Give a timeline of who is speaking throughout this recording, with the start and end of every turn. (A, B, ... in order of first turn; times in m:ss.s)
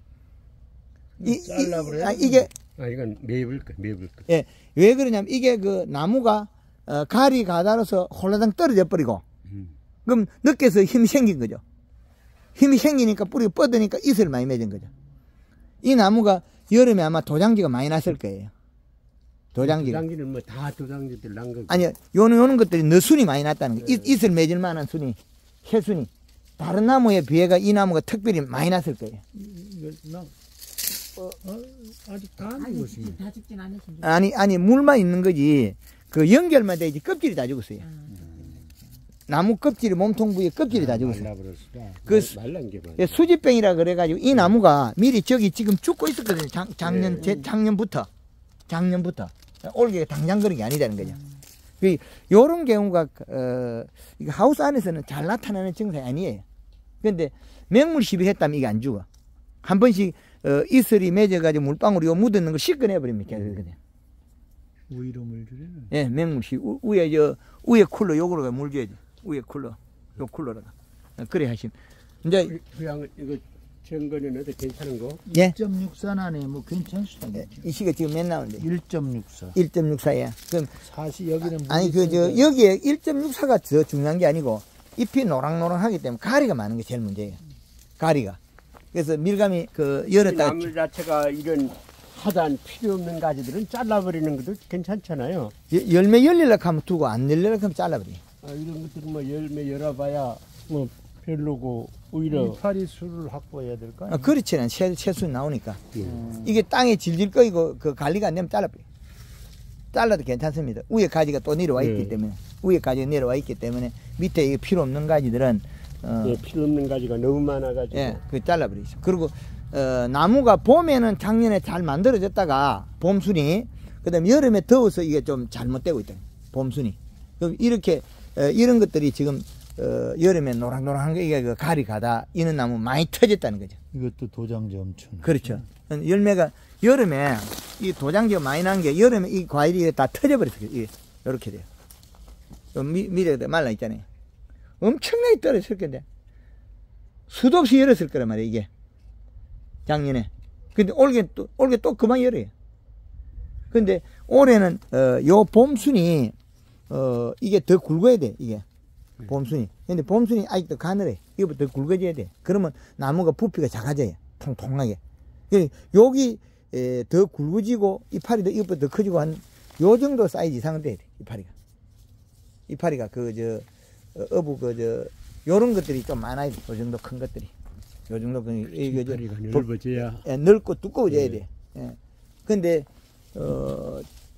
0:01.2-0:02.5 A
0:01.2-0:02.5 B
0:02.8-0:04.3 C
0:04.3-0:09.2 B
0:10.0-0:11.6 B
0:12.6-0:14.9 B
0:15.8-0:18.5 B
0:19.6-0:20.0 B
0:19.6-0:21.9 C
0:21.7-0:29.2 B
0:23.8-0:24.1 C
0:29.4-0:30.3 A
0:31.4-0:33.2 A
0:32.6-0:34.2 D
0:34.0-0:37.9 B
0:38.0-0:38.3 D
0:38.1-0:38.7 A
0:39.3-0:41.3 B
0:40.7-0:42.0 A
0:42.0-0:43.2 C
0:42.1-0:42.3 B
0:43.0-0:48.1 B
0:46.8-0:47.5 C
0:48.7-0:51.2 B
0:51.8-0:56.4 B
0:57.0-0:59.1 B
0:59.6-1:03.8 B
1:04.9-1:05.9 A
1:05.9-1:12.6 B
1:12.4-1:15.2 C
1:15.3-1:17.7 A
1:17.3-1:18.7 B
1:18.6-1:19.6 A
1:19.6-1:20.7 B
1:20.8-1:22.5 A
1:21.5-1:27.4 B
1:28.0-1:28.4 B
1:28.9-1:30.7 B
1:30.0-1:35.5 C
1:35.7-1:38.2 B
1:38.4-1:42.6 C
1:42.3-1:44.4 A
1:44.1-1:45.8 B
1:45.9-1:46.2 C
1:46.0-1:46.6 A
1:46.4-1:48.8 B
1:49.9-1:56.4 B
1:51.8-1:52.2 C
1:56.2-1:58.2 C
1:57.9-2:13.8 B
2:13.9-2:15.6 A
2:15.2-2:21.7 B
2:22.7-2:24.0 B
2:24.8-2:26.0 B
2:27.3-2:28.7 B
2:29.9-2:32.5 B
2:33.7-2:36.3 B
2:36.9-2:38.6 B
2:39.3-2:45.0 B
2:45.5-2:51.5 B
2:52.7-2:57.5 B
2:58.1-2:59.7 B
2:58.7-3:00.2 C
3:00.2-3:04.1 B
3:01.1-3:01.4 C